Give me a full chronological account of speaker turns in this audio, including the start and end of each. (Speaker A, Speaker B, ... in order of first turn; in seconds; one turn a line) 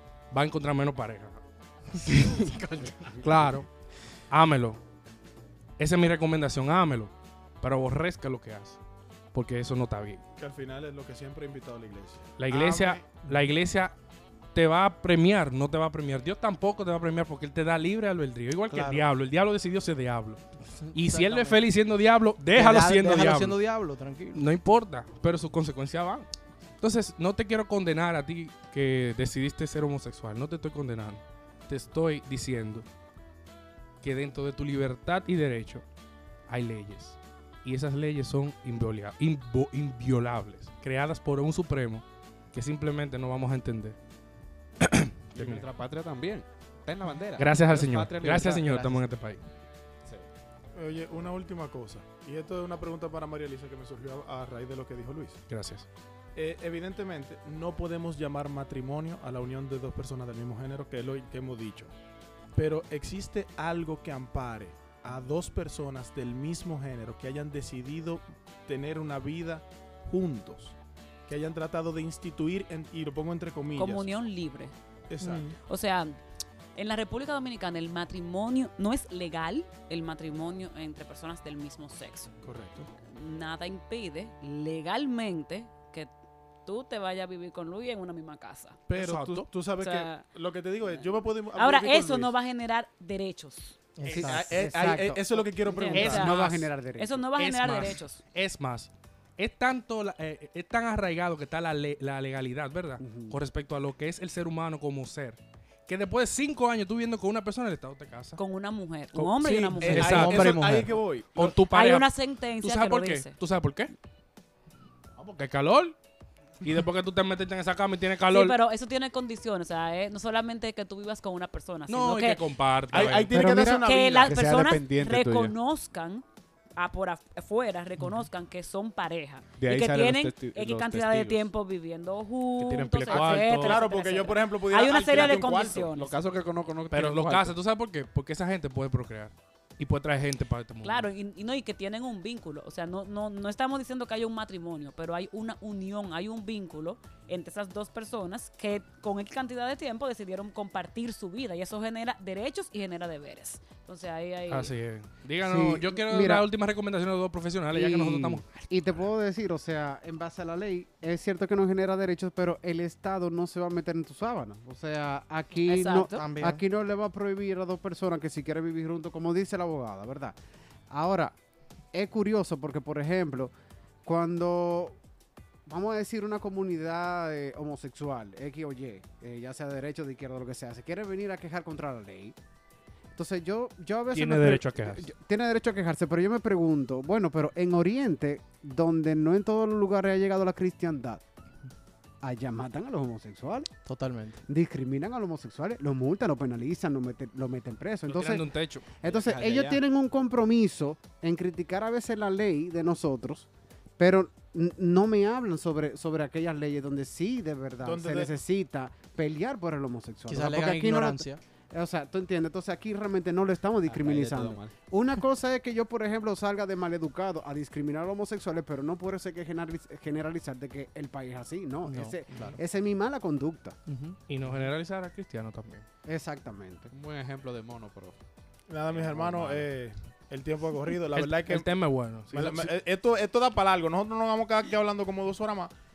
Speaker A: 0.3-1.4
Speaker B: 2.0-3.3
Speaker A: 2.0-2.4
Speaker A: 3.2-3.7
Speaker A: 4.3-4.8
Speaker A: 5.8-8.8
Speaker A: 9.3-10.2
Speaker C: 10.4-13.0
Speaker A: 12.4-13.9
Speaker A: 14.5-23.6
Speaker B: 18.7-19.1
Speaker B: 20.6-21.6
Speaker B: 22.5-24.4
Speaker A: 24.3-26.3
Speaker A: 26.8-32.9
Speaker A: 34.0-35.8
Speaker A: 36.5-44.0
Speaker A: 44.8-45.6
Speaker D: 45.3-49.1
Speaker A: 47.4-49.4
Speaker C: 50.7-55.4
Speaker A: 55.5-55.9
Speaker C: 56.3-61.9
Speaker C: 62.5-70.8
Speaker C: 71.3-74.1
Speaker E: 73.7-74.7
Speaker C: 75.1-75.6
Speaker E: 75.5-76.2
Speaker E: 76.7-82.4
Speaker C: 82.4-82.9
Speaker E: 83.0-86.1
Speaker E: 86.6-88.8
Speaker C: 88.9-92.3
Speaker A: 88.9-89.5
Speaker E: 89.8-90.2
Speaker E: 90.9-93.8
Speaker B: 94.0-94.6
Speaker C: 94.0-96.3
Speaker F: 94.1-97.2
Speaker E: 95.6-98.2
Speaker A: 95.9-96.7
Speaker A: 97.4-108.4
Speaker F: 103.0-103.4
Speaker E: 108.4-110.3
Speaker B: 109.4-111.0
Speaker A: 109.8-110.8
Speaker C: 109.8-111.5
Speaker A: 111.3-113.9
Speaker E: 111.7-113.3
Speaker A: 115.2-116.0
Speaker A: 116.6-118.5
Speaker E: 118.3-122.4
Speaker A: 121.9-123.3
Speaker C: 122.9-124.4
Speaker F: 123.3-123.9
Speaker E: 123.7-126.2
Speaker D: 124.3-125.5
Speaker E: 126.8-136.1
Speaker D: 129.6-131.5
Speaker A: 132.6-133.8
Speaker C: 133.1-135.9
Speaker D: 135.9-137.6
Speaker A: 136.9-141.1
Speaker E: 140.8-154.7
Speaker A: 154.5-159.1
Speaker F: 155.4-156.4
Speaker F: 157.7-170.4
Speaker E: 165.6-166.2
Speaker B: 165.9-166.6
Speaker F: 170.9-171.4
Speaker F: 171.9-173.5
Speaker F: 174.1-175.0
Speaker F: 175.7-182.4
Speaker F: 183.1-191.2
Speaker A: 184.1-185.1
Speaker F: 192.2-193.8
Speaker B: 193.9-194.4
Speaker F: 194.5-198.5
Speaker A: 198.1-198.8
Speaker F: 199.0-223.8
Speaker D: 199.0-199.8
Speaker C: 207.8-208.3
Speaker B: 210.3-211.4
Speaker D: 213.9-214.7
Speaker B: 221.8-222.6
Speaker B: 223.9-224.2
Speaker A: 224.3-225.8
Speaker F: 226.1-226.9
Speaker D: 226.9-228.2
Speaker C: 228.7-235.7
Speaker D: 228.9-229.7
Speaker A: 231.1-232.7